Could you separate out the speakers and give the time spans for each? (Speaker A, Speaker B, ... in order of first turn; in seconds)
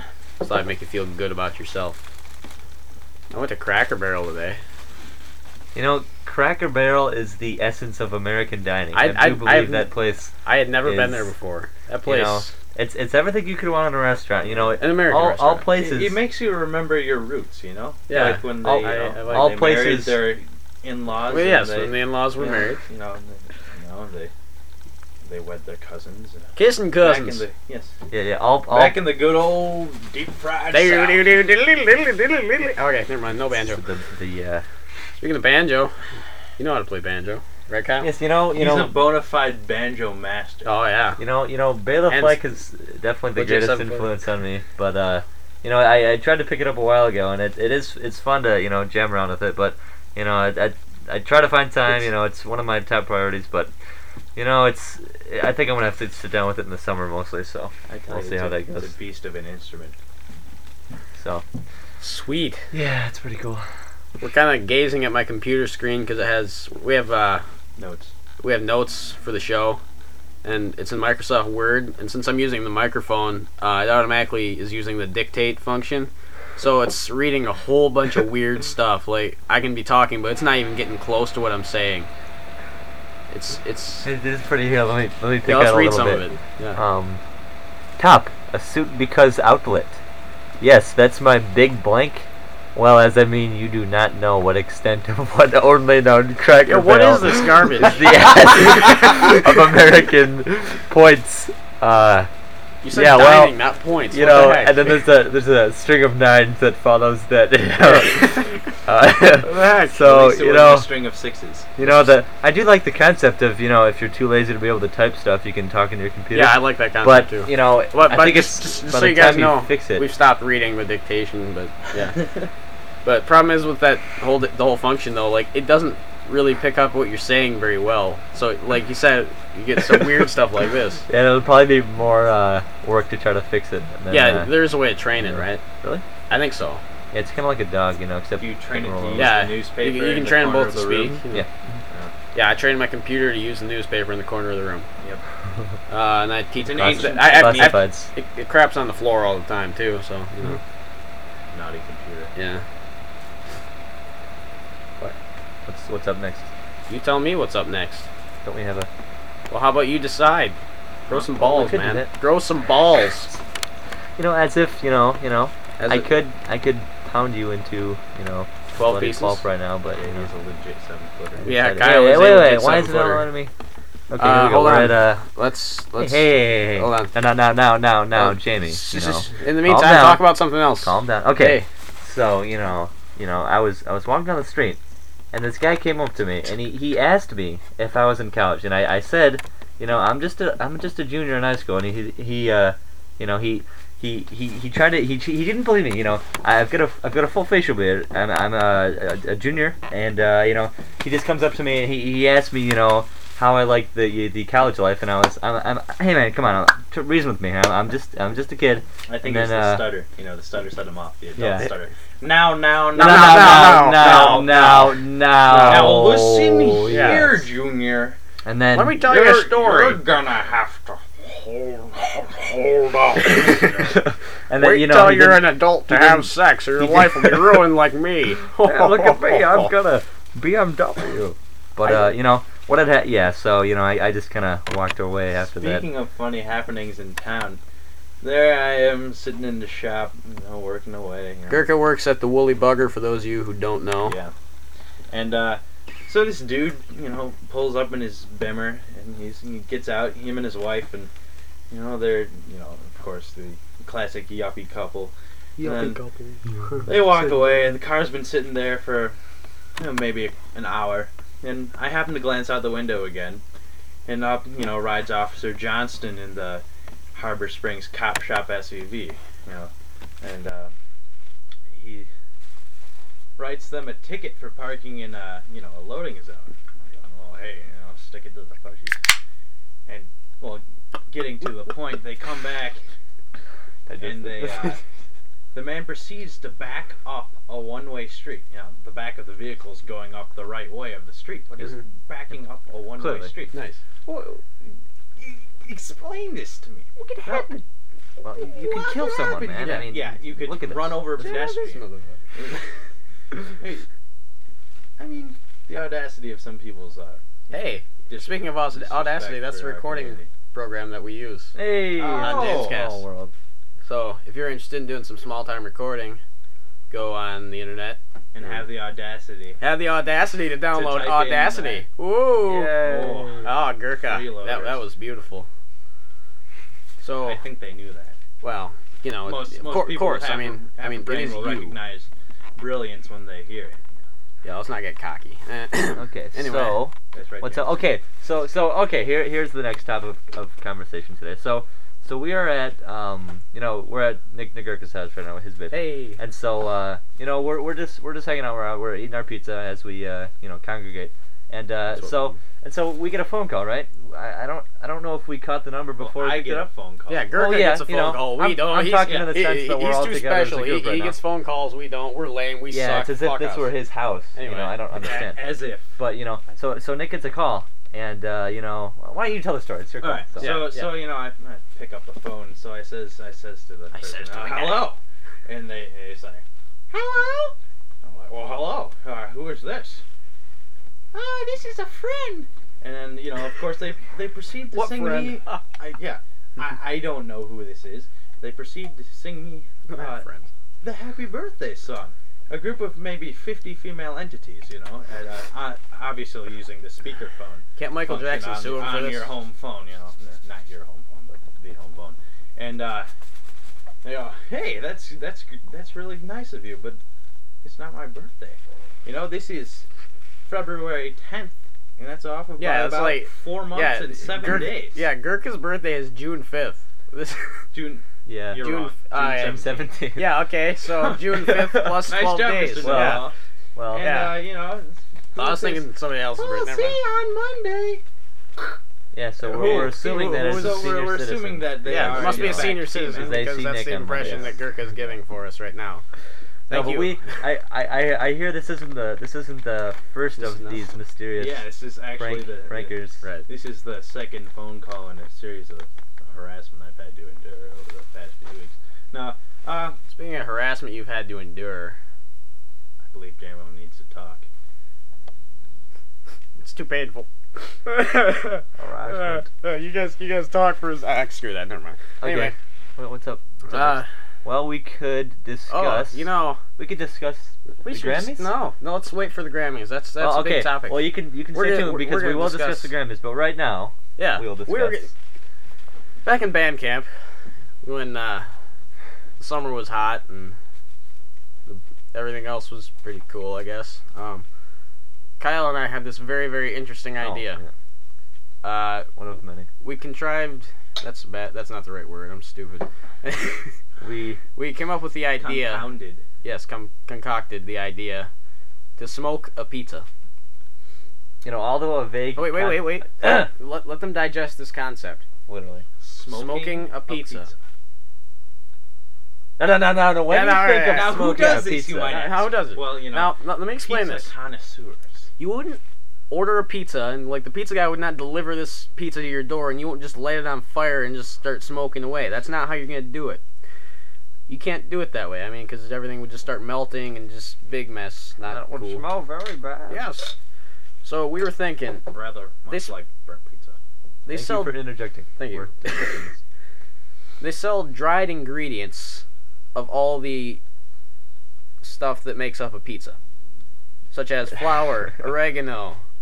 Speaker A: 0.4-2.0, 3.3-4.6, 8.9-9.9, 10.4-12.5, 14.8-15.6, 18.1-19.6, 21.3-22.8, 26.5-27.4, 30.7-33.8, 35.2-35.9, 36.6-38.1, 40.6-41.2, 42.1-42.4, 43.3-44.1, 62.0-62.7, 64.2-67.4, 68.4-69.8, 70.4-82.1, 83.3-84.1, 85.4-86.8, 96.7-98.1, 102.8-104.9, 109.3-110.0, 116.3-122.2, 123.0-131.0, 134.1-135.6, 136.3-136.8, 139.1-141.4, 142.3-144.9, 145.9-150.6, 152.3-152.6, 156.9-158.1, 159.5-160.6, 161.1-163.3, 165.8-166.1, 168.7-169.4, 171.4-173.3, 174.2-177.1, 178.1-181.7, 212.9-214.6, 215.4-216.0, 216.9-217.3, 218.7-220.0, 224.6-229.7, 241.5-244.2, 293.5-293.8, 297.0-297.6, 298.6-299.9, 301.2-302.2, 307.5-311.5, 312.1-313.0, 313.9-316.2, 316.9-318.0, 319.6-322.8, 323.4-325.5, 327.0-327.4, 328.4-331.8, 334.4-336.8, 345.7-346.2, 351.9-352.3, 357.1-363.7, 364.4-365.3, 370.4-370.9, 373.9-374.9, 384.7-385.6, 389.9-390.5, 397.8-399.3, 412.6-417.6, 418.6-419.6, 420.1-423.3, 424.0-424.3, 425.4-427.0, 429.5-430.9, 431.8-436.0, 436.7-437.2, 440.4-440.8, 450.1-451.9, 456.6-462.5, 463.7-464.1, 465.7-466.6, 467.8-472.9, 474.2-475.1, 476.2-477.1, 477.8-478.5, 479.4-480.6, 481.6-484.4, 485.4-487.6, 488.6-489.1, 489.8-493.8, 494.5-495.9, 496.4-498.3, 499.0-500.1, 502.3-505.2, 506.3-507.5, 510.3-511.2, 512.0-514.3, 515.4-523.4, 524.5-529.0, 529.9-530.3, 531.0-532.1, 532.7-532.9, 534.2-536.2, 537.4-539.2, 539.7-540.6, 541.8-543.2, 544.1-546.0
Speaker B: 5.7-10.3, 10.8-11.3, 12.0-16.2, 18.1-20.3, 28.1-29.1, 33.5-34.6, 38.0-39.0, 41.2-53.7, 54.3-58.9, 61.1-61.4, 62.7-63.7, 84.0-87.2, 88.0-90.0, 90.6-102.3, 102.9-103.6, 104.1-110.9, 111.8-120.0, 131.1-134.6, 135.2-136.0, 137.1-139.4, 146.8-148.1, 155.7-156.5, 158.4-158.9, 161.1-162.1, 164.2-170.3, 171.4-173.5, 174.1-175.2, 176.0-184.8, 185.3-209.9, 211.4-211.7, 212.9-217.4, 218.4-219.1, 223.3-227.6, 228.6-235.8, 283.9-284.8, 293.0-293.3, 298.2-301.6, 311.5-313.3, 322.4-323.5, 335.9-356.7, 357.3-361.2, 362.7-370.7, 418.2-418.6, 419.4-420.3, 421.3-422.1, 422.8-424.2, 429.1-434.5, 436.7-443.2, 458.8-459.5, 462.2-468.5, 470.2-475.1, 487.2-487.7, 489.1-489.7, 494.0-494.4, 501.4-503.5, 505.5-505.9, 509.6-512.2, 528.5-530.0, 534.3-536.4
Speaker C: 15.7-24.3, 25.2-27.9, 28.7-31.2, 38.5-40.7, 57.9-60.0, 67.8-68.1, 109.7-111.8, 138.4-141.2, 146.6-147.8, 151.5-152.3, 169.9-171.5, 209.1-215.0, 215.6-218.2, 219.0-224.0, 235.5-237.6, 238.2-241.7, 244.1-244.3, 245.1-251.1, 251.7-256.0, 256.9-259.2, 259.8-263.4, 264.1-270.7, 271.7-272.1, 273.4-279.0, 279.9-282.8, 284.0-284.8, 285.5-293.5, 294.1-297.5, 299.4-301.8, 302.3-302.7, 303.5-303.9, 305.0-310.3, 312.0-312.9, 318.3-319.6, 320.7-321.8, 322.7-324.8, 327.2-328.2, 329.2-333.9, 337.1-337.8, 356.0-357.4, 358.9-359.4, 364.9-365.9, 370.0-380.0, 381.1-390.2, 390.8-403.1, 404.0-407.0, 407.6-409.8, 410.4-415.0, 417.7-419.9, 422.1-423.3, 423.9-428.0, 429.4-433.4, 434.2-434.5, 441.4-450.0, 453.1-454.4, 495.4-496.2, 506.0-507.5, 510.9-515.3, 532.1-533.8